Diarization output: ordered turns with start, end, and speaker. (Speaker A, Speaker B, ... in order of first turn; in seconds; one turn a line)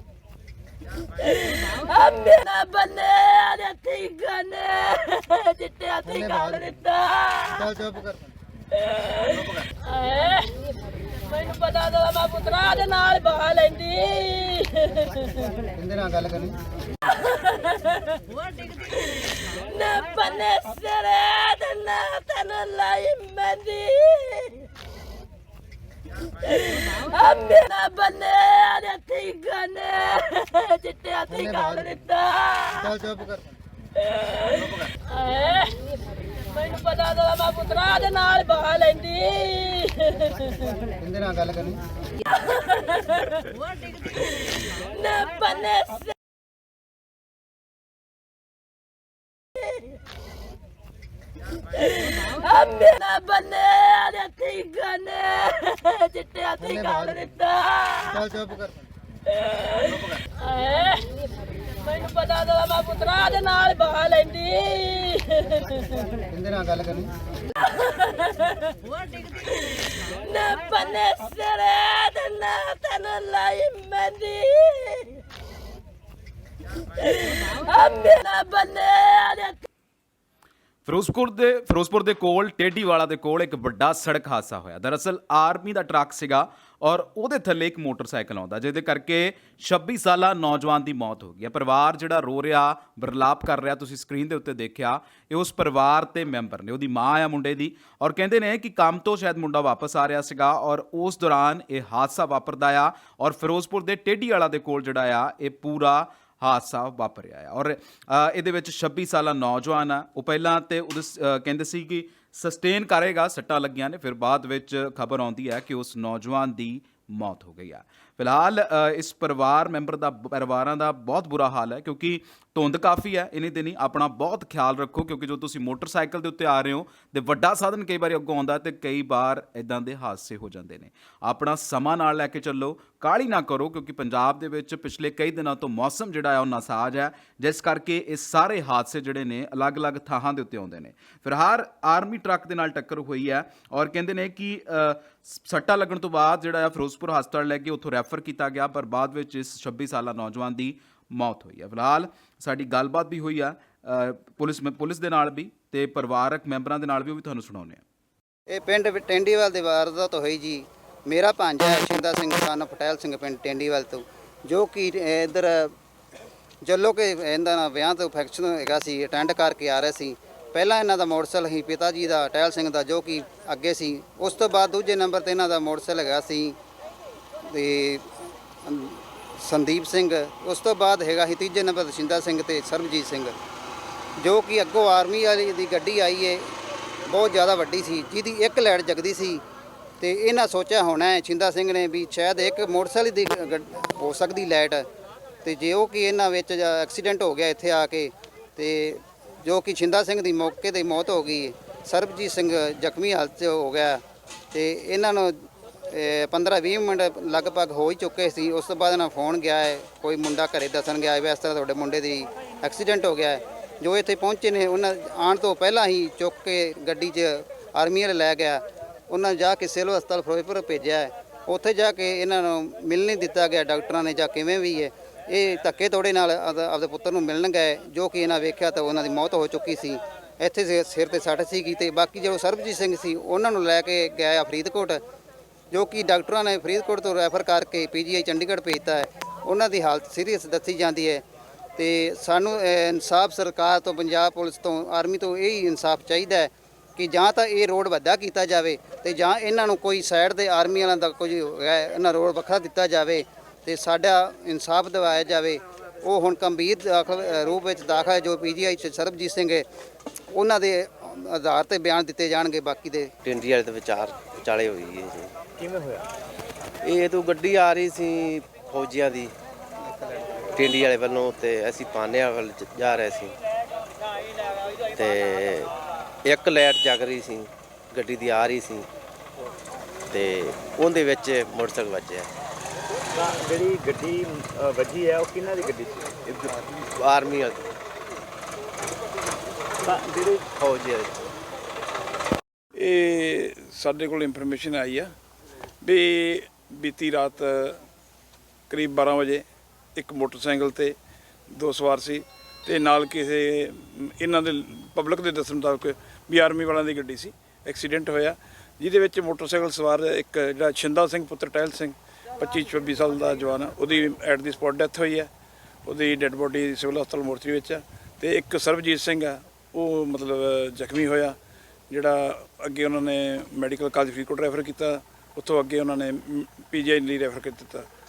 Speaker A: 1.2-7.7
Speaker B: 6.1-6.6
Speaker B: 7.6-8.2
Speaker A: 9.0-10.5
Speaker A: 11.3-15.3
Speaker B: 15.8-16.5
Speaker A: 17.3-18.0
Speaker A: 18.9-24.6
Speaker A: 26.5-32.9
Speaker B: 31.4-32.0
Speaker B: 32.8-33.4
Speaker A: 34.3-35.8
Speaker A: 36.6-40.5
Speaker B: 41.0-41.8
Speaker A: 42.5-43.5
Speaker A: 44.8-46.1
Speaker A: 52.0-58.2
Speaker B: 56.8-57.3
Speaker B: 58.1-58.7
Speaker A: 59.6-61.1
Speaker A: 61.9-65.8
Speaker B: 66.3-67.1
Speaker A: 67.6-68.7
Speaker A: 69.5-75.2
Speaker A: 77.0-79.6
Speaker C: 80.9-157.8
Speaker B: 158.5-165.7
Speaker B: 166.7-176.6
Speaker B: 177.5-178.1
Speaker B: 178.7-183.3
Speaker B: 184.2-186.5
Speaker B: 187.1-189.4
Speaker B: 190.0-194.8
Speaker B: 195.4-204.0
Speaker B: 204.5-235.0
Speaker B: 235.7-241.2
Speaker B: 241.8-259.6
Speaker B: 260.3-263.1
Speaker D: 263.2-265.3
Speaker E: 265.6-266.1
Speaker D: 266.8-269.3
Speaker D: 270.5-273.3
Speaker D: 274.9-275.7
Speaker D: 276.2-278.9
Speaker D: 280.1-282.3
Speaker E: 283.1-286.2
Speaker D: 286.3-287.6
Speaker E: 289.8-290.5
Speaker D: 290.6-291.3
Speaker F: 292.8-295.1
Speaker F: 295.9-297.8
Speaker F: 298.7-299.4
Speaker F: 300.0-300.9
Speaker F: 301.5-315.3
Speaker F: 315.9-321.4
Speaker F: 321.9-327.9